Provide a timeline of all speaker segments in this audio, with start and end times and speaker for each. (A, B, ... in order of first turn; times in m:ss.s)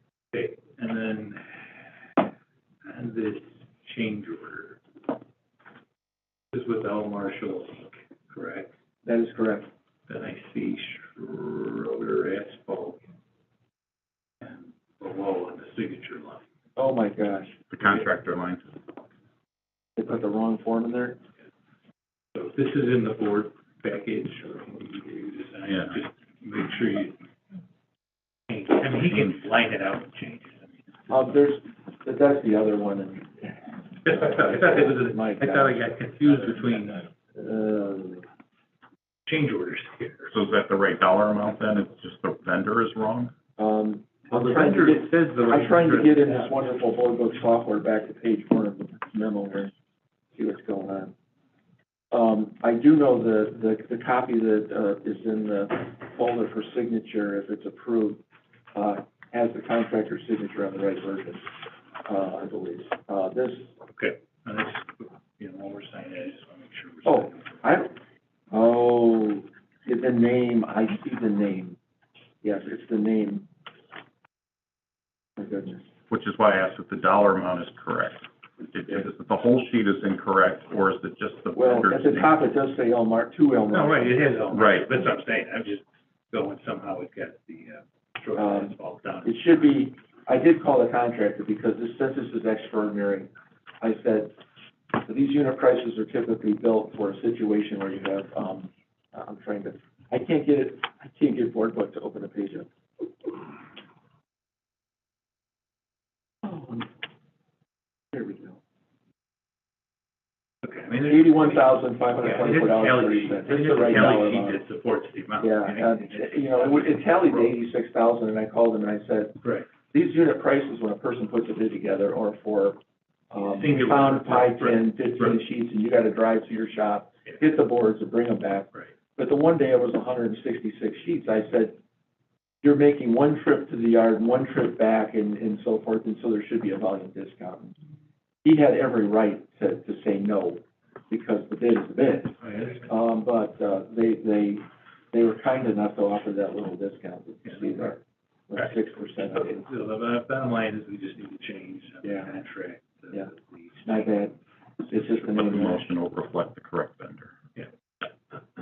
0:00.3-0:01.8 A
0:02.8-0:04.8 A
0:06.5-0:08.7 A
0:09.0-0:09.7 B
0:10.1-0:13.0 A
0:14.4-0:16.4 A
0:16.8-0:17.6 B
0:17.7-0:18.7 C
0:20.0-0:21.2 B
0:22.3-0:27.2 A
0:28.5-0:30.7 A
0:31.1-0:35.9 B
0:34.0-0:37.1 A
0:37.3-0:38.2 B
0:39.3-0:40.3 A
0:40.3-0:43.3 C
0:43.6-0:49.7 B
0:44.3-0:46.7 A
0:50.3-0:51.1 B
0:52.1-0:58.2 B
0:58.7-1:01.4 B
1:02.0-1:03.7 B
1:03.9-1:07.7 A
1:07.0-1:07.9 B
1:08.5-1:11.8 B
1:12.4-1:13.5 B
1:15.4-1:15.8 B
1:16.1-1:22.3 C
1:21.5-1:24.2 B
1:23.7-1:29.6 A
1:24.5-1:24.9 C
1:28.4-1:28.7 B
1:29.2-1:33.3 B
1:33.8-1:34.3 B
1:35.0-1:42.7 B
1:46.4-1:46.9 B
1:48.1-1:48.6 B
1:50.6-1:57.5 A
1:51.1-1:54.6 B
1:55.4-2:02.8 B
1:59.4-1:59.7 A
2:03.3-2:11.8 B
2:03.4-2:05.4 A
2:12.6-2:17.8 B
2:18.4-2:29.7 B
2:22.4-2:22.9 A
2:28.6-2:34.1 A
2:32.0-2:32.3 B
2:33.8-2:34.3 B
2:34.9-2:35.8 B
2:35.2-2:37.3 C